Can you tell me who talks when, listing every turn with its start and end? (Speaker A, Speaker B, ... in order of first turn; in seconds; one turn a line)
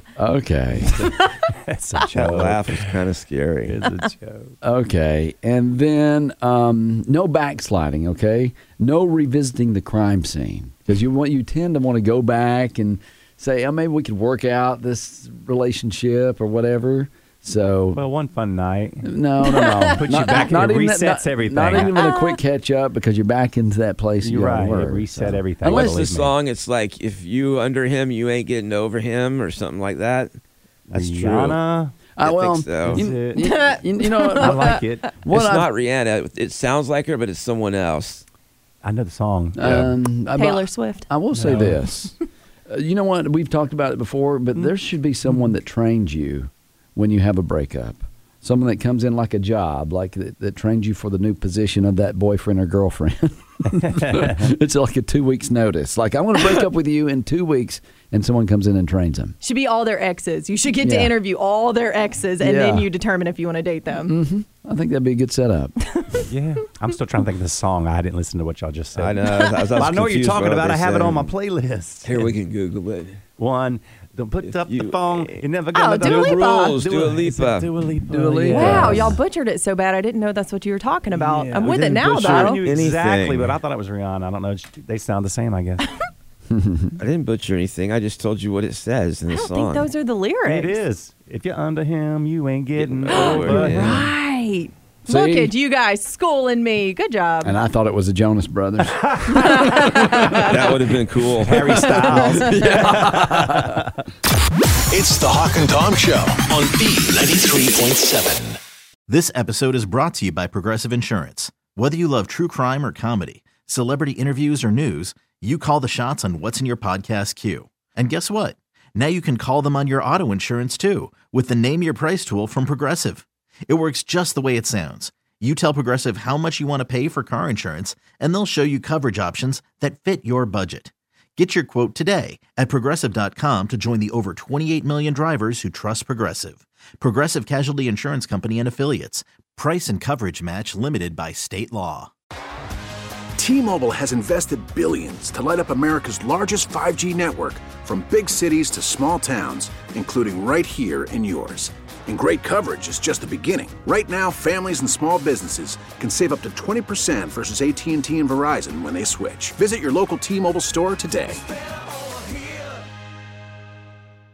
Speaker A: 0.2-1.1
Speaker B: 0.9-3.0
Speaker C: 2.1-3.9
Speaker B: 3.7-4.6
Speaker A: 4.6-18.0
Speaker B: 17.9-19.1
Speaker A: 19.0-26.0
Speaker D: 19.5-19.8
Speaker B: 19.9-21.9
Speaker D: 21.8-22.4
Speaker B: 24.2-26.3
Speaker C: 25.6-30.4
Speaker A: 30.9-31.5
Speaker B: 30.9-32.0
Speaker C: 31.2-31.6
Speaker A: 32.1-35.7
Speaker C: 32.2-33.1
Speaker B: 32.8-33.6
Speaker D: 33.4-34.8
Speaker B: 34.4-35.1
Speaker C: 35.3-38.2
Speaker B: 38.8-39.8
Speaker A: 39.6-42.1
Speaker D: 40.4-41.1
Speaker B: 41.3-41.8
Speaker A: 42.7-59.4
Speaker B: 53.8-54.5
Speaker D: 59.4-64.2
Speaker A: 60.8-61.1
Speaker A: 62.4-62.9
Speaker A: 64.0-65.9
Speaker B: 66.3-72.3
Speaker C: 69.0-71.3
Speaker C: 72.0-73.2
Speaker B: 73.4-79.2
Speaker C: 74.5-75.3
Speaker D: 75.7-76.8
Speaker C: 76.0-77.7
Speaker A: 78.1-79.2
Speaker D: 78.5-82.6
Speaker B: 81.1-85.9
Speaker C: 82.3-83.6
Speaker A: 86.5-87.0
Speaker C: 87.0-89.9
Speaker D: 89.3-90.8
Speaker B: 90.5-94.0
Speaker C: 92.8-94.0
Speaker D: 93.1-97.5
Speaker A: 95.1-95.5
Speaker A: 97.4-100.6
Speaker D: 99.3-100.5
Speaker C: 100.4-102.0
Speaker B: 101.4-104.0
Speaker A: 102.0-103.9
Speaker D: 102.3-102.5
Speaker E: 104.9-108.6
Speaker F: 109.1-142.1
Speaker G: 143.4-161.4